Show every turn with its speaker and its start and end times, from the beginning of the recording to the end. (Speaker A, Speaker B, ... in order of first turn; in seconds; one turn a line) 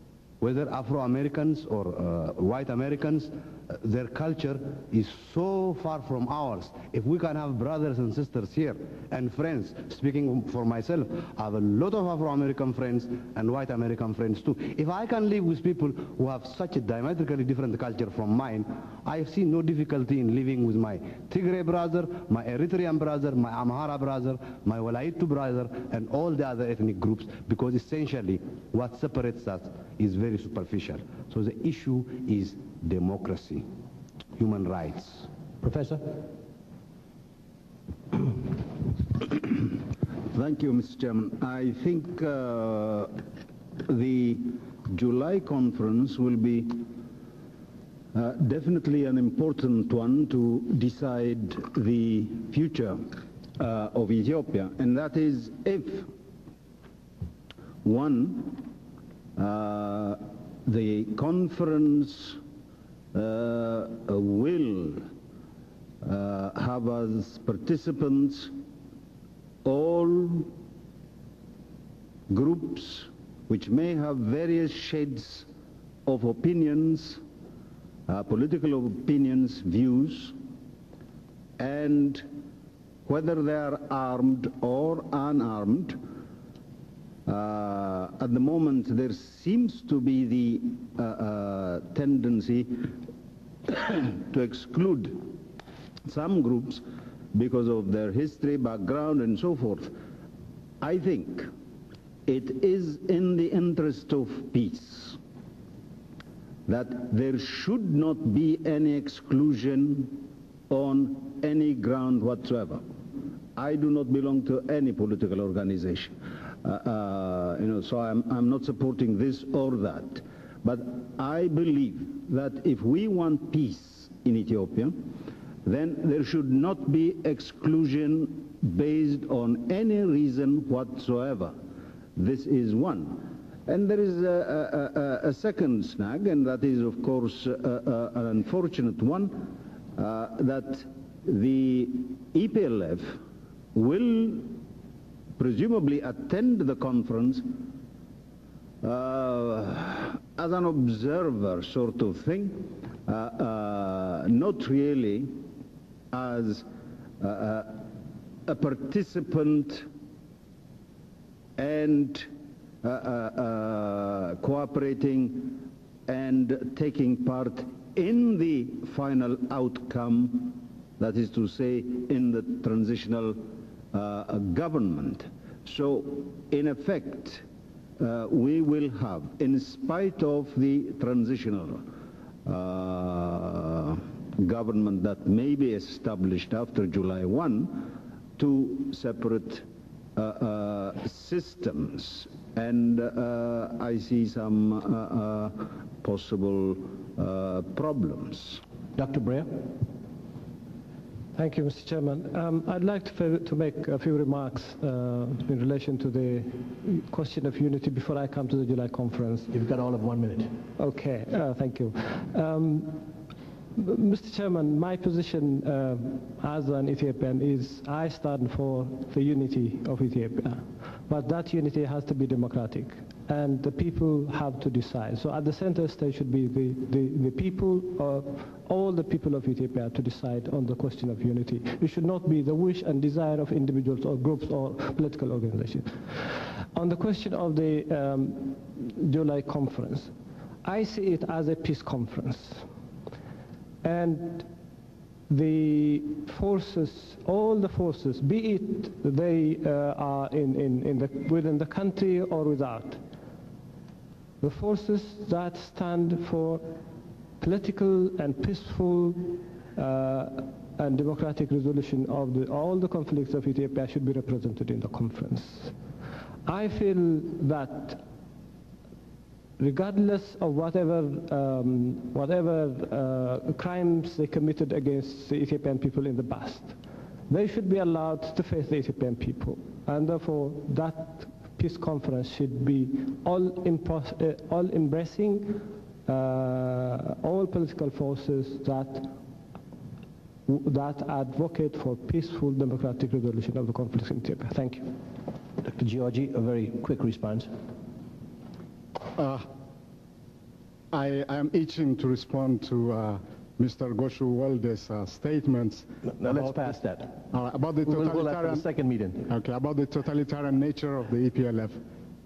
Speaker A: 0.4-33.7
Speaker A: 34.4-35.3
Speaker B: 35.6-36.2
Speaker C: 39.3-39.7
Speaker C: 40.3-43.1
Speaker C: 43.9-46.9
Speaker C: 48.1-56.1
Speaker C: 57.8-58.7
Speaker C: 59.4-62.4
Speaker C: 63.1-65.0
Speaker C: 66.0-68.5
Speaker C: 69.6-70.5
Speaker C: 72.3-75.5
Speaker C: 76.0-77.2
Speaker C: 78.1-80.3
Speaker C: 81.6-82.2
Speaker C: 83.0-86.0
Speaker C: 87.2-92.9
Speaker C: 93.7-95.3
Speaker C: 96.0-99.9
Speaker C: 100.8-101.5
Speaker C: 102.2-105.2
Speaker C: 106.7-112.8
Speaker C: 113.5-125.1
Speaker C: 125.6-131.6
Speaker C: 132.1-143.2
Speaker C: 143.7-144.6
Speaker C: 145.4-147.7
Speaker C: 148.8-155.4
Speaker C: 156.1-156.7
Speaker C: 157.2-157.8
Speaker C: 158.4-159.9
Speaker C: 161.6-162.3
Speaker C: 162.8-177.4
Speaker C: 178.0-181.9
Speaker C: 182.4-198.6
Speaker B: 198.9-199.6
Speaker D: 201.3-209.5
Speaker B: 209.5-210.5
Speaker D: 210.8-213.0
Speaker D: 213.8-235.9
Speaker D: 236.7-240.1
Speaker D: 240.6-242.6
Speaker D: 243.8-244.5
Speaker D: 245.3-253.0
Speaker D: 254.4-256.6
Speaker D: 257.4-265.7
Speaker D: 266.4-268.0
Speaker D: 269.6-276.7
Speaker D: 277.3-289.1
Speaker D: 290.5-294.9
Speaker B: 295.6-297.5
Speaker E: 299.1-299.5
Speaker E: 300.9-306.5
Speaker B: 306.1-307.2
Speaker E: 307.3-308.7
Speaker B: 307.8-309.3
Speaker E: 309.2-311.8